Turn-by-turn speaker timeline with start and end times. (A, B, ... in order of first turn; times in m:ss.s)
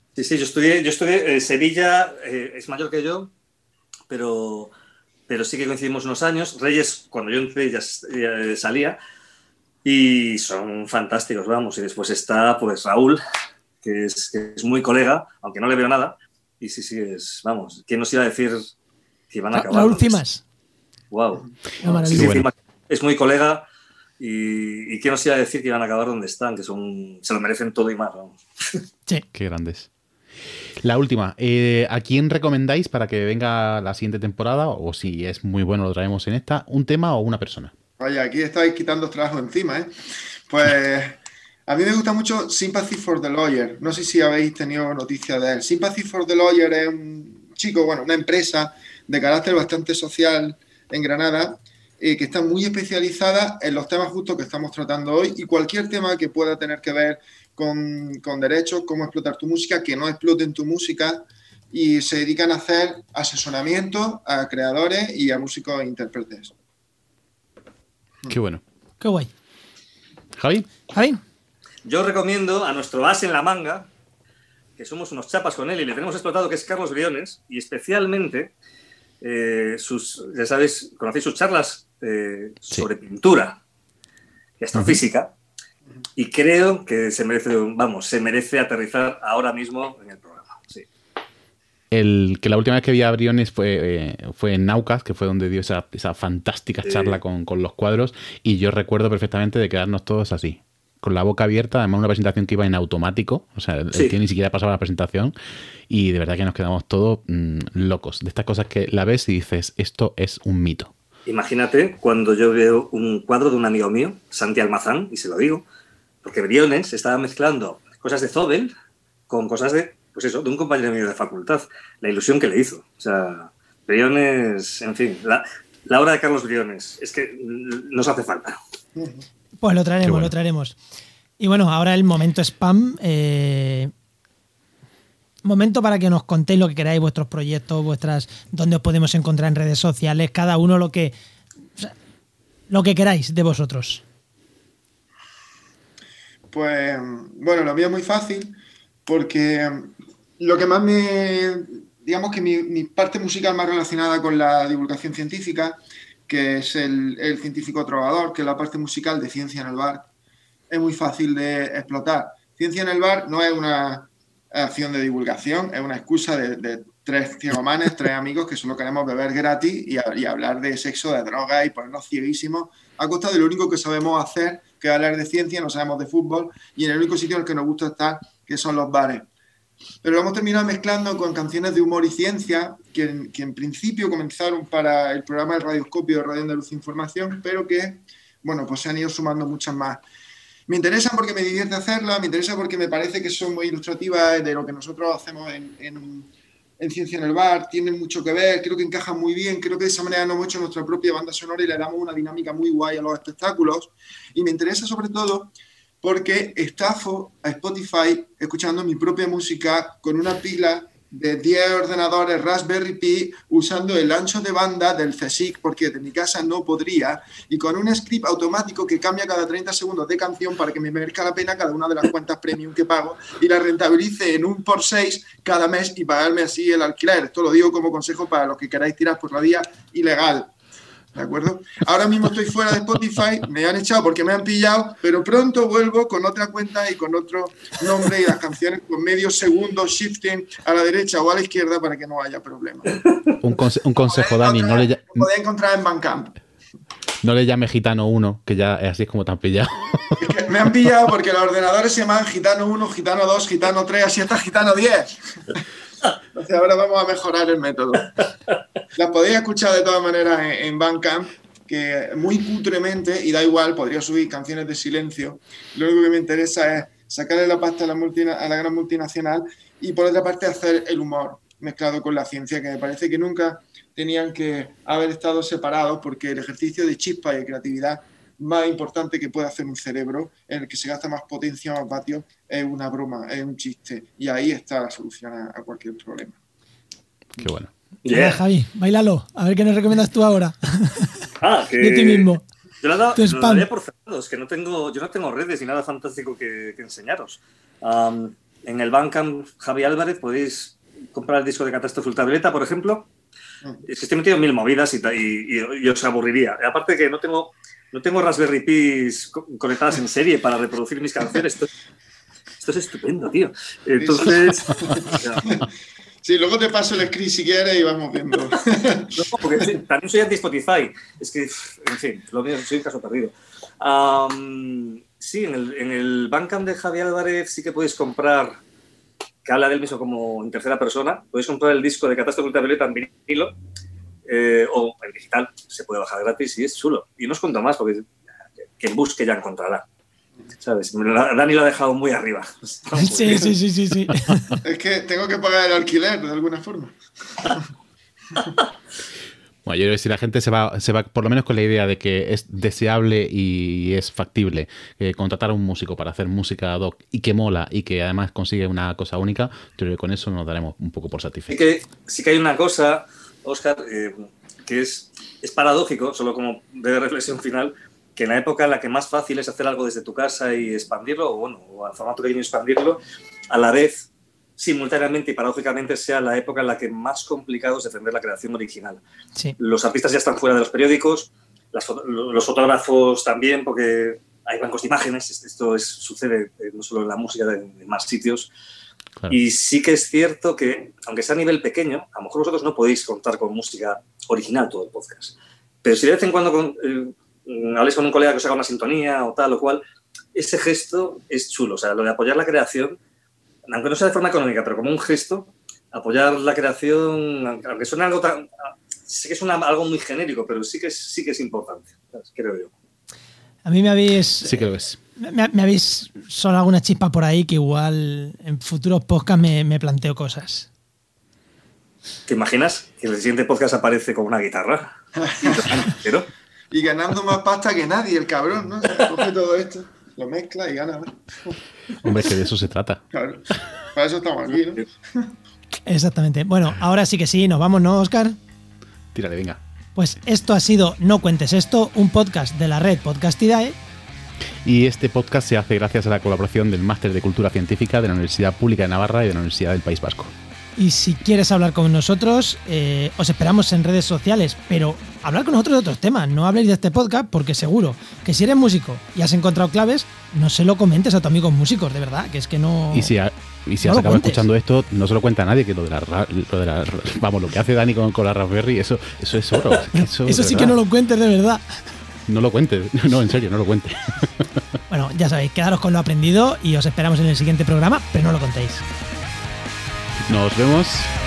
0:00.2-0:03.3 A
0:04.1-0:04.7 A
0:05.3-0:09.0 A
0:09.8-0:13.2 A
0:13.8-0:18.7 A
0:19.3-0:20.2 A
0:19.5-0:20.4 B
0:21.1-0:23.7 A
0:21.8-0:22.4 B
0:22.1-0:22.5 C
0:24.2-0:28.8 A
0:29.3-0:29.9 C
0:30.8-0:37.7 C
0:38.0-0:39.9 D
0:40.5-1:06.5 D
1:08.3-1:08.6 C
1:09.0-1:09.3 B
1:10.4-1:10.7 C
1:10.9-1:11.2 B
1:11.8-1:13.9 A
1:14.8-1:18.5 A
1:19.2-1:23.6 A
1:24.6-1:25.3 A
1:24.8-1:25.0 C
1:26.2-1:30.9 A
1:31.9-1:45.3 C
1:36.8-1:37.2 A
1:45.9-1:50.9 C
1:51.3-1:55.6 A
1:56.2-1:58.7 A
1:59.3-2:08.6 A
2:09.0-2:09.2 D
2:09.6-2:10.8 B
2:10.0-2:10.3 C
2:11.4-2:13.9 B
2:15.4-2:21.1 B
2:22.7-2:24.0 B
2:26.5-2:40.1 D
2:40.7-2:59.3 D
3:00.0-3:10.0 D
3:10.7-3:50.5 D
3:51.2-4:03.0 D
4:03.0-4:03.3 A
4:03.4-4:05.3 C
4:04.0-4:06.4 D
4:07.2-4:10.3 C
4:10.2-4:15.6 D
4:16.3-4:18.3 D
4:19.0-4:46.4 D
4:47.4-4:47.7 C
4:48.0-4:48.4 A
4:48.1-4:51.3 B
4:51.4-4:52.3 A
4:51.8-4:52.4 B
4:52.8-5:03.1 A
4:53.2-4:53.7 B
5:03.8-5:11.7 A
5:12.6-5:15.6 A
5:14.0-5:15.7 D
5:16.2-5:19.8 D
5:19.2-5:28.6 A
5:29.4-5:33.5 A
5:34.3-5:38.2 A
5:38.8-5:39.9 A
5:40.6-5:43.5 A
5:43.0-5:44.6 B
5:44.6-5:47.6 D
5:49.6-6:01.6 C
6:01.5-6:19.0 A
6:19.6-6:28.5 A
6:29.3-6:39.8 A
6:40.4-6:43.0 A
6:43.7-6:52.7 A
6:53.6-6:54.6 B
6:54.4-6:55.0 C
6:55.2-7:00.7 B
7:02.3-7:06.3 A
7:05.2-7:06.0 D
7:06.7-7:11.6 D
7:12.0-7:13.0 C
7:13.1-7:15.3 D
7:15.9-7:18.4 B
7:19.1-7:19.6 C
7:20.0-7:23.8 B
7:24.6-7:30.3 C
7:30.8-7:43.1 B
7:42.9-7:50.8 C
7:43.8-7:44.4 B
7:49.9-7:51.6 B
7:52.3-7:54.6 C
7:54.9-7:58.8 B
8:00.2-8:01.1 C